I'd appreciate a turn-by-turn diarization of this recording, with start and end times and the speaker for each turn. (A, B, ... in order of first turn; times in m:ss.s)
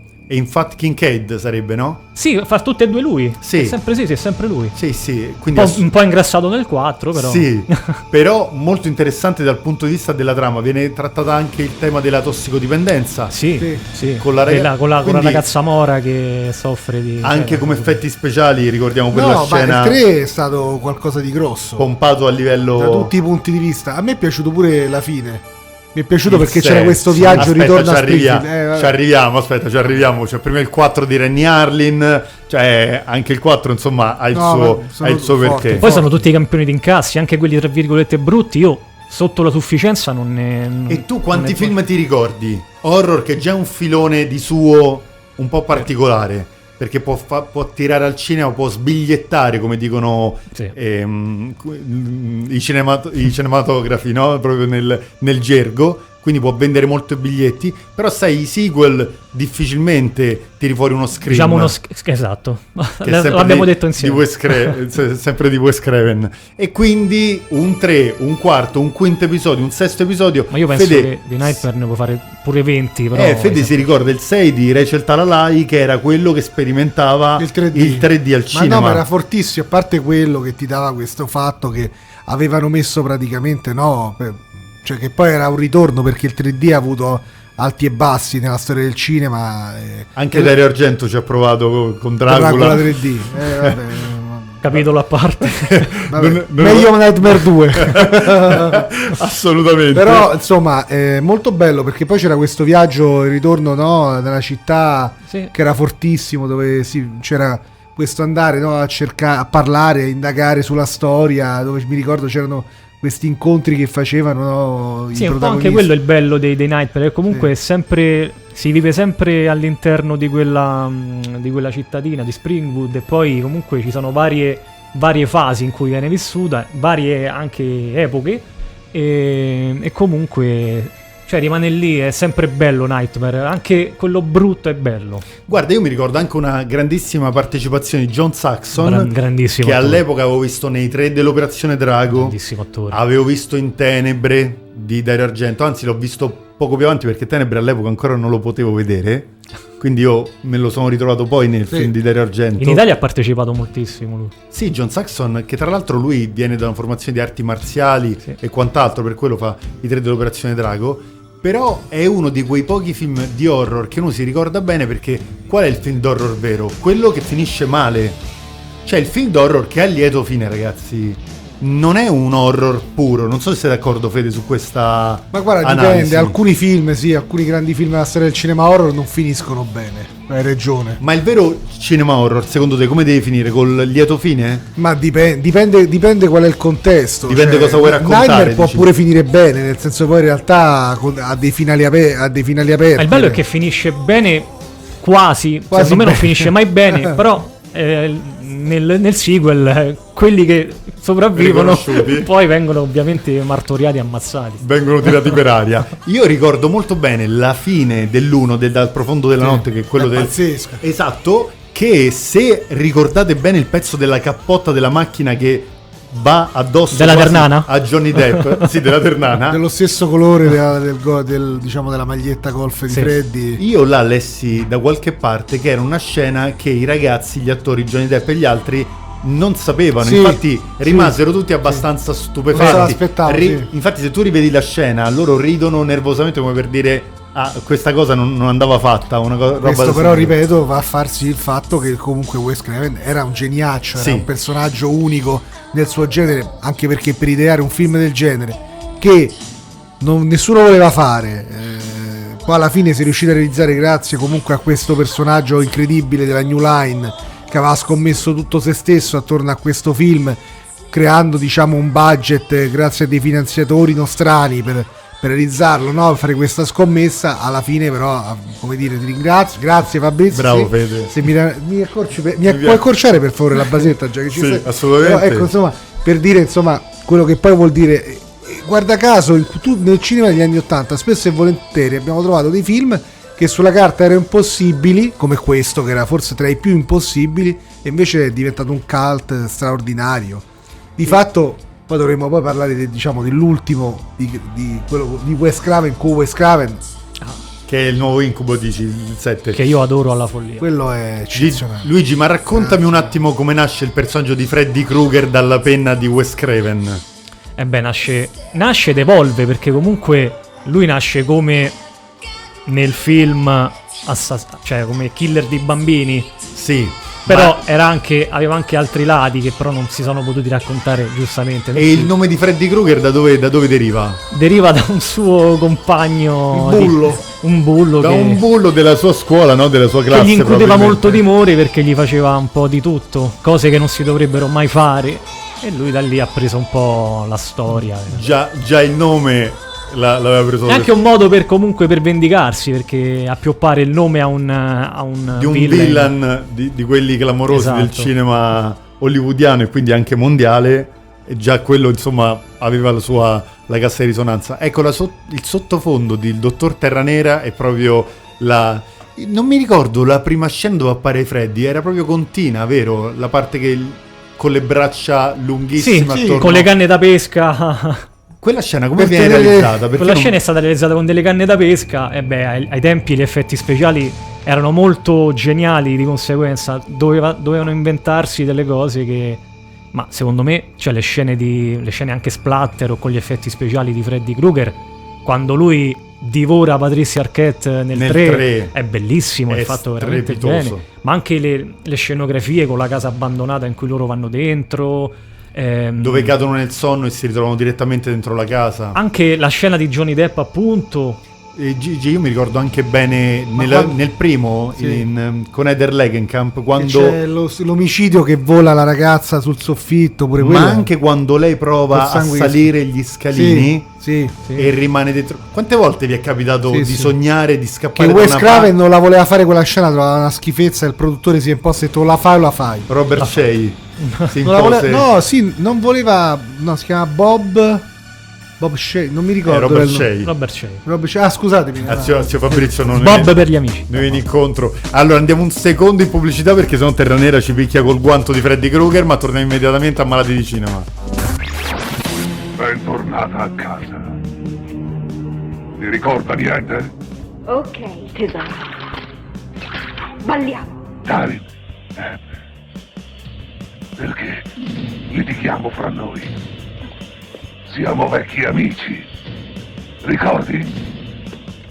0:00.3-0:02.0 A
0:02.2-0:04.7 B
0:03.4-0:03.8 A
0:04.7-0:05.9 A
0:05.5-0:08.0 B
0:07.1-0:13.3 A
0:13.3-0:18.0 B
0:13.6-0:13.8 C
0:14.0-0:15.4 A
0:17.2-0:20.0 A
0:19.1-0:21.9 C
0:21.8-0:23.1 A
0:22.8-0:29.0 C
0:26.2-0:35.9 A
0:34.3-0:36.2 C
0:35.8-0:41.8 B
0:40.9-1:01.7 A
1:01.2-1:04.7 B
1:03.0-1:11.6 A
1:10.5-1:13.8 B
1:13.1-1:19.0 A
1:17.4-1:30.5 C
1:30.2-1:32.9 A
1:32.3-1:34.6 C
1:34.6-1:36.0 B
1:35.7-1:40.3 A
1:36.1-1:38.9 C
1:39.9-1:55.9 C
1:45.3-1:45.5 B
1:55.1-2:15.3 B
2:15.4-2:22.4 A
2:18.7-2:20.0 B
2:22.1-2:23.0 B
2:22.9-2:32.8 A
2:32.6-2:34.3 B
2:34.5-2:48.2 A
2:48.8-2:56.4 A
2:55.3-3:01.0 C
3:01.0-3:04.6 A
3:04.8-3:13.4 C
3:07.3-3:08.9 A
3:13.0-3:14.5 B
3:15.0-3:24.6 B
3:15.7-3:17.2 C
3:21.3-3:22.3 A
3:24.6-3:39.6 A
3:29.4-3:30.8 C
3:36.9-3:38.4 B
3:39.5-3:43.6 C
3:43.6-4:00.4 A
3:50.0-3:51.8 C
3:52.5-3:53.7 C
3:59.6-4:09.4 C
4:03.9-4:04.3 A
4:10.0-4:50.4 C
4:30.3-4:31.2 A
4:32.4-4:32.8 A
4:34.3-4:35.5 A
4:51.0-4:56.8 C
4:57.7-4:59.6 A
4:59.5-5:00.7 B
5:00.6-5:01.9 C
5:01.3-5:07.0 A
5:02.5-5:03.1 C
5:07.6-5:11.8 B
5:12.6-5:16.4 B
5:16.5-5:17.6 A
5:17.3-5:22.1 B
5:21.7-5:24.2 A
5:24.3-5:28.4 B
5:26.5-5:27.2 C
5:28.0-5:31.2 A
5:30.1-5:38.2 B
5:38.1-5:40.9 A
5:40.6-5:46.1 B
5:45.4-6:06.7 A
5:47.5-5:48.1 B
6:05.8-6:08.1 B
6:06.1-6:06.4 C
6:08.4-6:10.4 A
6:09.0-6:09.8 C
6:10.0-6:36.3 B
6:27.9-6:28.7 A
6:29.5-6:30.8 A
6:36.0-6:39.0 A
6:38.9-6:41.2 B
6:41.6-6:47.2 A
6:43.5-6:44.0 C
6:44.7-6:45.0 C
6:46.8-6:50.9 C
6:50.4-6:53.9 A
6:51.9-6:52.7 C
6:53.3-6:54.6 C
6:54.5-6:58.7 A
6:56.7-6:57.1 C
6:57.9-7:02.9 C
7:02.9-7:05.1 A
7:03.2-7:03.4 B
7:04.0-7:04.3 B
7:04.4-7:07.9 C
7:08.6-7:10.1 C
7:09.4-7:10.3 A
7:10.2-7:10.8 B
7:10.8-7:12.5 C
7:11.8-7:20.9 A
7:12.7-7:14.2 B
7:22.6-7:24.2 D
7:25.8-7:26.9 D
7:27.5-7:28.8 E
7:30.2-7:30.9 E
7:31.0-7:31.4 D
7:34.0-7:34.4 D
7:35.1-7:36.3 D
7:37.7-7:39.0 D
7:40.0-7:40.8 D